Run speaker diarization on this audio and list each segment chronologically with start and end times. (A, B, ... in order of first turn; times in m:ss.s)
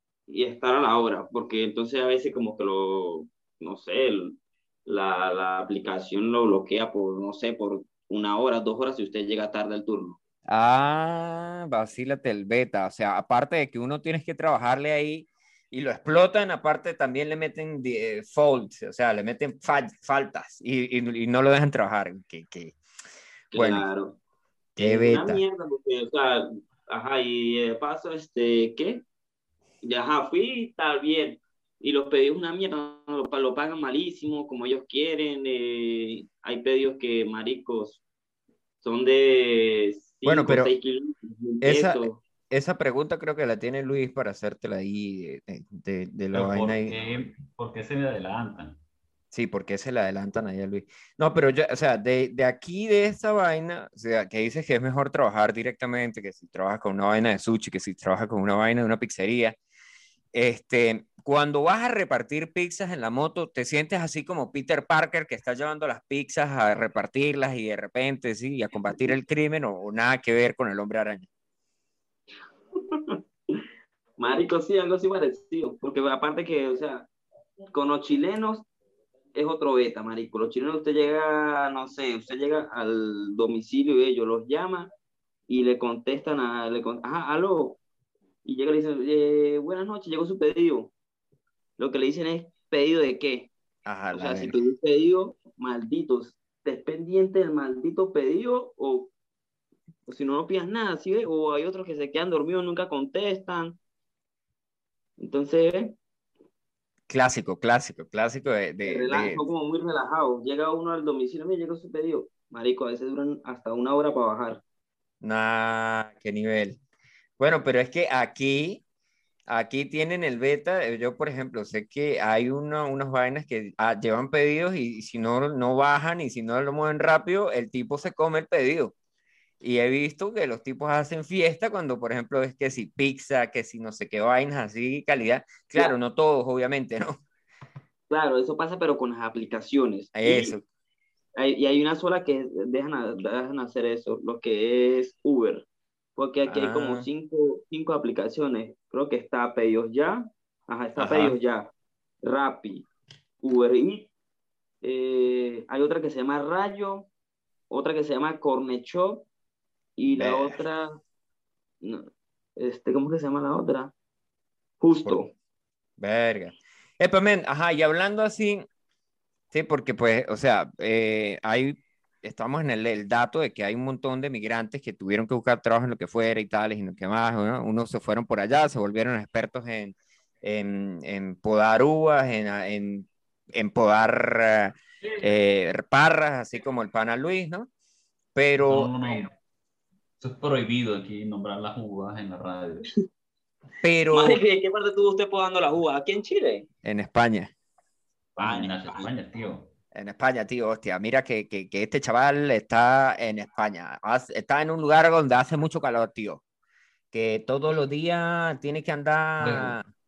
0:00.3-0:10.2 A
0:10.5-0:22.8 B
0:23.5-0:23.9 B
0:23.5-0:24.2 A
0:24.8-0:25.4 B
0:24.8-0:29.0 A
0:29.8-0:38.0 A
0:38.8-0:42.2 A
0:40.2-0:40.7 B
0:41.6-0:47.0 B
0:46.3-0:48.8 C
0:49.3-0:59.6 B
1:00.3-1:11.3 B
1:12.7-1:13.6 A
1:14.2-1:17.1 A
1:17.7-1:18.7 A
1:19.3-1:24.9 A
1:25.5-1:27.8 A
1:28.4-1:30.9 A
1:31.8-1:33.5 A
1:33.8-1:34.6 B
1:34.1-1:39.1 A
1:40.1-1:43.8 A
1:45.2-1:45.9 A
1:47.1-1:49.4 B
1:48.8-1:54.6 A
1:55.2-1:56.8 B
1:57.4-1:58.8 B
1:59.5-2:08.9 B
2:09.6-2:17.2 B
2:18.1-2:20.6 A
2:20.1-2:20.6 B
2:21.4-2:31.7 A
2:26.5-2:27.0 B
2:31.0-2:31.4 B
2:32.2-2:32.9 A
2:33.4-2:34.1 A
2:34.8-2:37.1 A
2:37.7-2:39.3 A
2:40.0-2:41.0 A
2:40.1-2:40.6 B
2:41.8-2:43.9 A
2:44.8-2:45.3 A
2:46.0-2:48.6 B
2:49.5-3:07.7 B
3:08.3-3:08.9 B
3:08.6-3:09.3 C
3:10.2-3:12.8 C
3:13.8-3:14.4 B
3:14.1-3:16.7 A
3:16.8-3:17.5 B
3:18.4-3:19.7 C
3:18.4-3:19.1 A
3:19.9-3:26.4 B
3:27.1-3:29.8 B
3:29.4-3:29.8 C